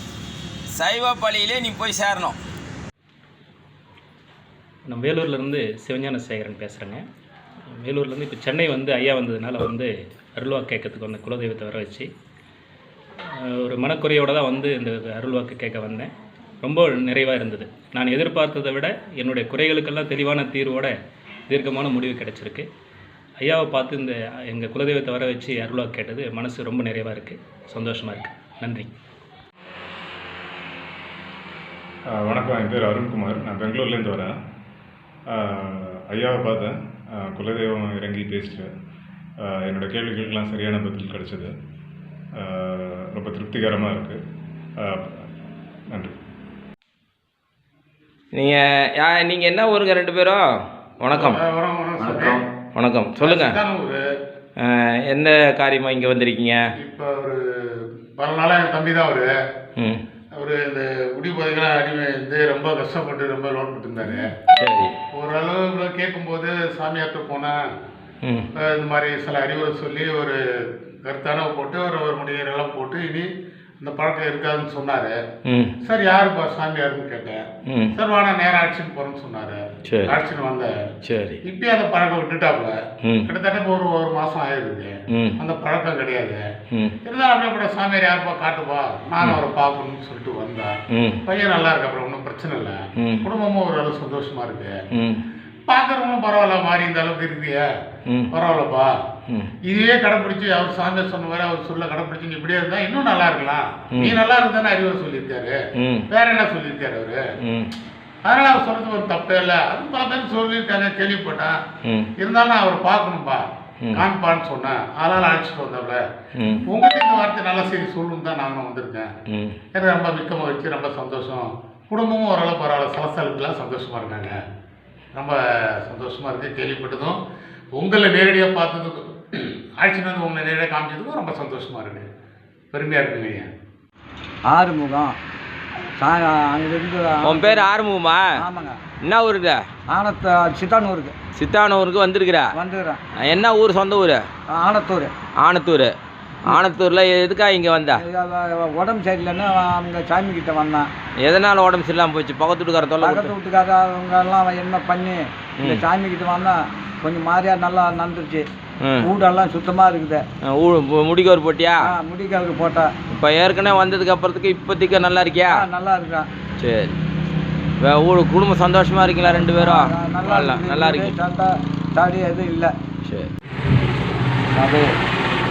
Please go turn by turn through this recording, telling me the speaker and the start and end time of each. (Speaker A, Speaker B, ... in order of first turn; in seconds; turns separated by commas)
Speaker A: 0.8-2.4, Speaker B: 4.9-7.0, Speaker B: 7.8-12.1, Speaker B: 13.6-16.1, Speaker B: 16.6-20.9, Speaker B: 21.5-22.7, Speaker B: 23.4-28.9, Speaker C: 32.1-34.3, Speaker C: 35.3-38.7, Speaker C: 39.4-41.5, Speaker C: 42.4-44.2, Speaker A: 48.3-50.5, Speaker A: 51.0-51.4, Speaker D: 51.1-52.4, Speaker A: 52.0-53.6, Speaker D: 53.2-54.0, Speaker A: 54.6-56.6, Speaker D: 56.8-57.4, Speaker D: 58.2-59.3, Speaker D: 60.3-64.3, Speaker A: 64.5-64.9, Speaker D: 65.1-67.6, Speaker D: 68.6-70.4, Speaker D: 71.0-73.3, Speaker D: 73.8-75.2, Speaker A: 75.5-75.7, Speaker D: 75.8-80.8, Speaker A: 79.9-80.2, Speaker A: 81.0-81.4, Speaker D: 81.4-86.5, Speaker D: 87.0-90.8, Speaker A: 90.9-91.2, Speaker D: 91.3-94.8, Speaker A: 94.9-95.2, Speaker D: 95.7-97.7, Speaker D: 98.3-99.0, Speaker D: 99.6-105.6, Speaker A: 103.9-104.2, Speaker A: 105.8-106.0, Speaker D: 106.1-107.2, Speaker A: 107.4-107.7, Speaker D: 108.2-111.6, Speaker D: 112.2-116.0, Speaker A: 116.4-116.6, Speaker D: 116.7-119.1, Speaker A: 119.3-119.6, Speaker D: 119.7-124.4, Speaker D: 125.2-127.2, Speaker D: 127.8-132.1, Speaker D: 132.7-133.5, Speaker E: 134.5-135.2, Speaker E: 136.0-137.7, Speaker A: 137.2-138.3, Speaker E: 138.4-138.8, Speaker A: 139.0-139.6, Speaker E: 139.9-141.2, Speaker A: 141.3-142.5, Speaker E: 142.5-143.0, Speaker A: 143.2-144.2, Speaker E: 144.5-145.1, Speaker A: 145.4-145.9, Speaker A: 146.5-148.0, Speaker E: 147.9-150.9, Speaker A: 151.2-153.3, Speaker E: 153.0-158.5, Speaker A: 155.6-155.8, Speaker A: 158.8-159.1, Speaker E: 159.0-160.2, Speaker A: 160.5-161.9, Speaker E: 161.8-162.9, Speaker A: 163.1-165.7, Speaker E: 165.5-166.3, Speaker A: 166.6-167.0, Speaker A: 167.8-171.2, Speaker E: 169.2-172.8, Speaker A: 173.0-173.3